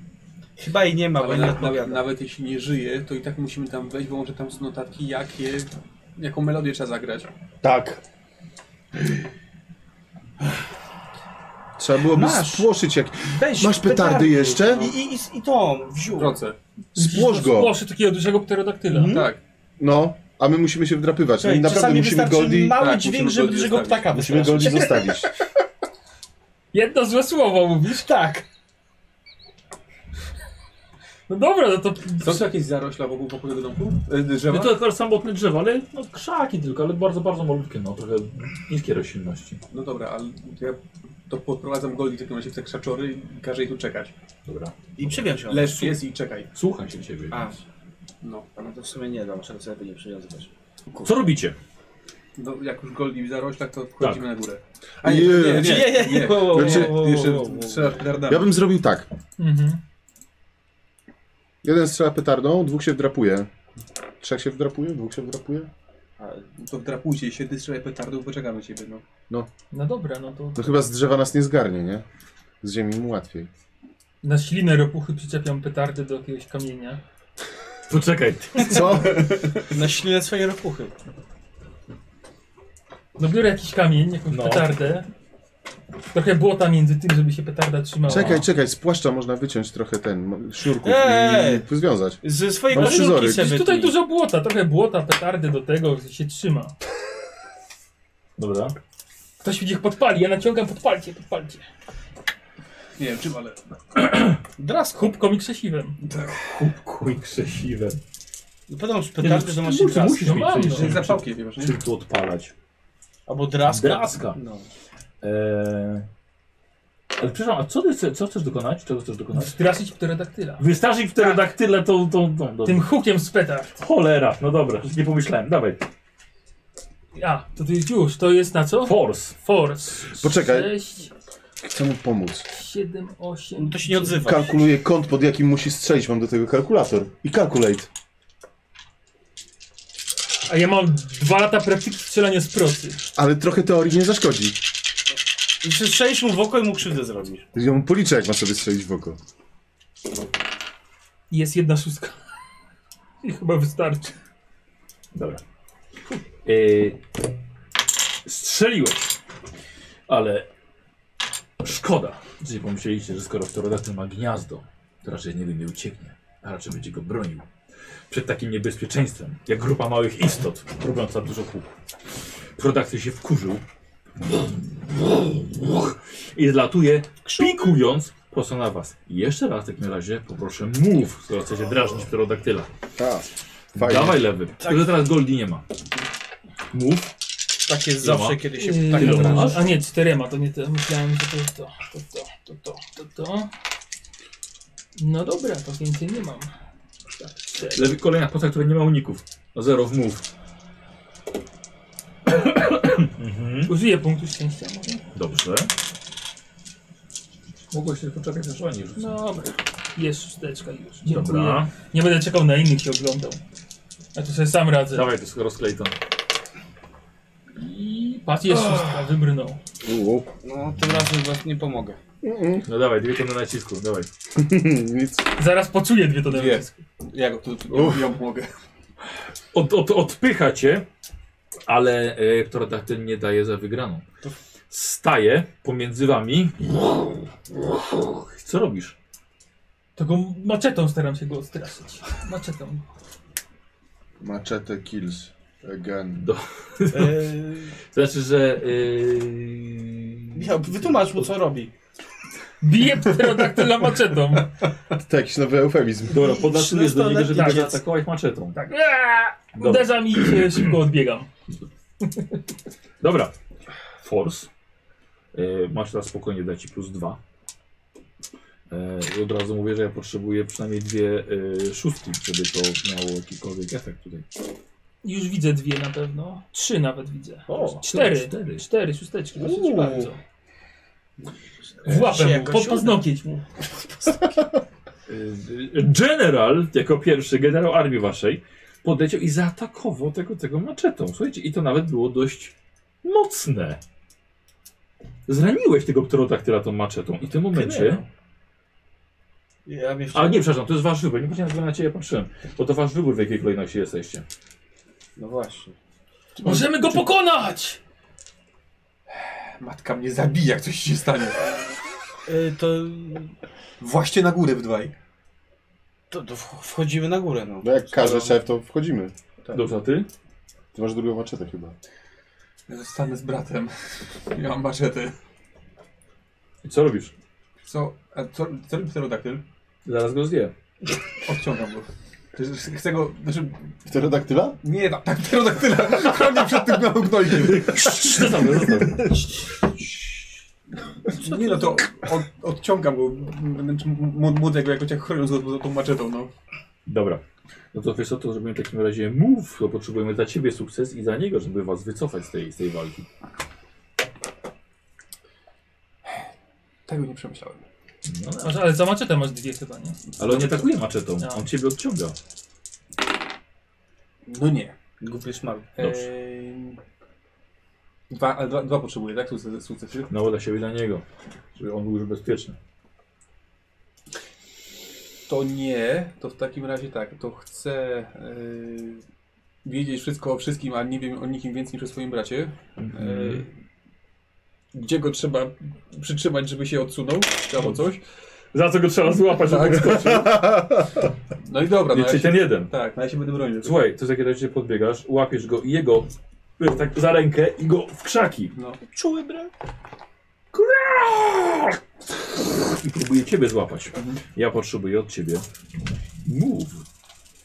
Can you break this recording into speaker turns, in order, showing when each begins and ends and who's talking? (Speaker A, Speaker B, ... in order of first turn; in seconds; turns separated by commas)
Speaker A: 0.6-2.0, Speaker B: 1.2-7.3, Speaker C: 7.6-8.0, Speaker C: 11.8-14.9, Speaker A: 12.1-12.7, Speaker A: 13.3-16.4, Speaker B: 16.1-16.6, Speaker D: 16.9-19.3, Speaker C: 16.9-17.8, Speaker B: 18.9-19.4, Speaker C: 19.8-22.8, Speaker A: 21.4-25.1, Speaker B: 22.8-24.1, Speaker C: 24.1-25.3, Speaker D: 26.7-28.1, Speaker A: 27.9-28.4, Speaker D: 31.3-32.5, Speaker B: 32.2-34.8, Speaker E: 34.5-39.6, Speaker B: 39.7-44.1, Speaker E: 44.4-45.3, Speaker A: 45.0-46.0, Speaker B: 45.5-46.5, Speaker E: 46.5-47.5, Speaker A: 47.3-47.6, Speaker A: 48.5-50.5, Speaker E: 51.0-51.5, Speaker B: 52.4-58.5, Speaker E: 54.0-54.3, Speaker C: 55.0-57.0, Speaker A: 55.2-58.0, Speaker C: 58.3-59.1, Speaker D: 59.4-59.8, Speaker C: 61.6-63.5, Speaker C: 64.2-65.7, Speaker A: 66.2-66.4, Speaker B: 66.6-69.0, Speaker D: 69.7-70.7, Speaker C: 70.5-72.0, Speaker C: 72.6-73.5, Speaker D: 74.2-77.0, Speaker E: 77.9-78.8, Speaker C: 78.6-79.6, Speaker A: 79.7-80.9, Speaker D: 83.2-85.0, Speaker E: 84.3-84.7, Speaker D: 86.1-88.4, Speaker C: 88.0-93.5, Speaker E: 88.1-88.4, Speaker A: 90.8-91.6, Speaker A: 92.2-94.0, Speaker D: 92.7-96.7, Speaker E: 98.4-98.7, Speaker D: 99.4-101.6, Speaker B: 103.0-103.6, Speaker E: 104.0-104.4, Speaker A: 104.6-105.2, Speaker D: 105.0-106.0, Speaker B: 106.0-106.5, Speaker E: 106.4-108.0, Speaker A: 108.7-110.5, Speaker E: 109.2-112.5, Speaker D: 110.2-111.0, Speaker B: 110.5-111.8, Speaker A: 113.3-114.7, Speaker E: 113.7-114.4, Speaker E: 115.2-116.1, Speaker E: 117.2-119.6, Speaker D: 119.3-120.6, Speaker E: 120.6-122.8, Speaker D: 122.6-123.8, Speaker E: 123.8-125.8, Speaker D: 127.1-131.1, Speaker E: 128.8-129.4, Speaker C: 130.2-130.7, Speaker C: 131.6-132.4, Speaker D: 132.5-134.2, Speaker A: 133.6-134.6, Speaker C: 134.1-137.9, Speaker D: 140.4-143.0, Speaker C: 143.2-144.6, Speaker A: 145.6-147.4, Speaker C: 147.5-149.2, Speaker D: 151.3-152.2, Speaker D: 153.2-154.1, Speaker E: 155.1-155.4, Speaker E: 156.4-157.0, Speaker E: 158.2-159.1, Speaker E: 160.1-160.5, Speaker E: 161.6-167.4, Speaker E: 168.1-171.7, Speaker E: 172.6-173.6, Speaker E: 175.4-182.7, Speaker A: 177.2-177.7, Speaker C: 183.0-184.2, Speaker E: 183.8-185.6, Speaker A: 184.6-184.9, Speaker E: 186.7-187.1, Speaker A: 187.7-189.7, Speaker E: 188.0-189.7, Speaker D: 188.6-193.5, Speaker D: 195.0-196.5, Speaker D: 197.1-197.9, Speaker E: 197.7-200.2, Speaker E: 202.3-203.7, Speaker D: 203.7-205.0, Speaker E: 205.1-205.7, Speaker E: 207.7-209.2, Speaker D: 209.0-213.4, Speaker E: 211.0-211.7, Speaker D: 214.1-215.1, Speaker E: 214.9-215.9, Speaker D: 217.6-219.6, Speaker C: 219.8-220.3, Speaker A: 220.4-222.0, Speaker C: 222.2-222.7, Speaker E: 222.6-224.1, Speaker C: 224.3-225.2, Speaker D: 225.4-226.7, Speaker B: 226.3-228.5, Speaker C: 227.7-228.0, Speaker E: 229.5-230.8, Speaker E: 231.7-234.0, Speaker E: 234.7-236.7, Speaker E: 238.0-238.9, Speaker D: 239.9-242.8, Speaker C: 244.2-246.2, Speaker E: 246.2-247.3, Speaker A: 246.9-247.7, Speaker E: 247.9-251.2, Speaker A: 250.3-251.7, Speaker D: 252.6-254.5, Speaker C: 255.0-256.2, Speaker E: 256.1-258.6, Speaker A: 256.1-257.8, Speaker D: 257.3-257.7, Speaker D: 258.5-261.3, Speaker E: 259.5-260.6, Speaker D: 262.0-262.4, Speaker E: 263.0-263.3, Speaker E: 264.0-264.5, Speaker E: 265.3-267.2, Speaker E: 268.7-274.2, Speaker D: 275.0-280.2, Speaker E: 277.5-278.6, Speaker A: 279.3-280.1, Speaker D: 281.8-283.4, Speaker A: 281.8-284.4, Speaker E: 285.1-293.8, Speaker E: 295.3-298.0, Speaker A: 297.5-298.1, Speaker A: 299.6-300.5, Speaker E: 300.1-304.2, Speaker A: 305.2-305.7, Speaker B: 306.4-307.1, Speaker D: 306.4-307.8, Speaker B: 309.2-311.4, Speaker A: 312.2-313.3, Speaker B: 313.8-314.9, Speaker A: 316.1-318.3, Speaker C: 317.6-319.1, Speaker E: 319.5-320.1, Speaker C: 320.7-321.8, Speaker B: 322.7-323.7, Speaker B: 324.3-325.1, Speaker E: 326.6-327.1, Speaker B: 327.6-329.4, Speaker E: 329.8-330.5, Speaker B: 331.2-333.7, Speaker C: 333.9-334.6, Speaker B: 334.6-337.9, Speaker E: 337.3-339.1, Speaker B: 341.1-346.3, Speaker A: 341.2-341.6, Speaker E: 346.9-353.1, Speaker B: 356.9-357.6, Speaker E: 358.0-358.6, Speaker D: 358.4-360.0, Speaker B: 360.2-360.7, Speaker E: 360.2-362.1, Speaker B: 364.2-364.7, Speaker A: 365.0-365.7, Speaker B: 365.8-366.8, Speaker E: 365.8-366.1, Speaker B: 368.1-370.1, Speaker E: 370.1-371.0, Speaker E: 371.6-372.6, Speaker B: 375.3-379.0, Speaker B: 379.6-383.5, Speaker E: 382.8-383.5, Speaker B: 384.7-388.0, Speaker E: 388.5-390.5, Speaker B: 389.4-390.0, Speaker C: 389.7-391.0, Speaker B: 391.4-393.8, Speaker E: 391.9-392.7, Speaker E: 393.6-398.5, Speaker A: 398.8-399.5, Speaker E: 400.5-401.8, Speaker E: 402.5-405.4, Speaker E: 406.2-406.8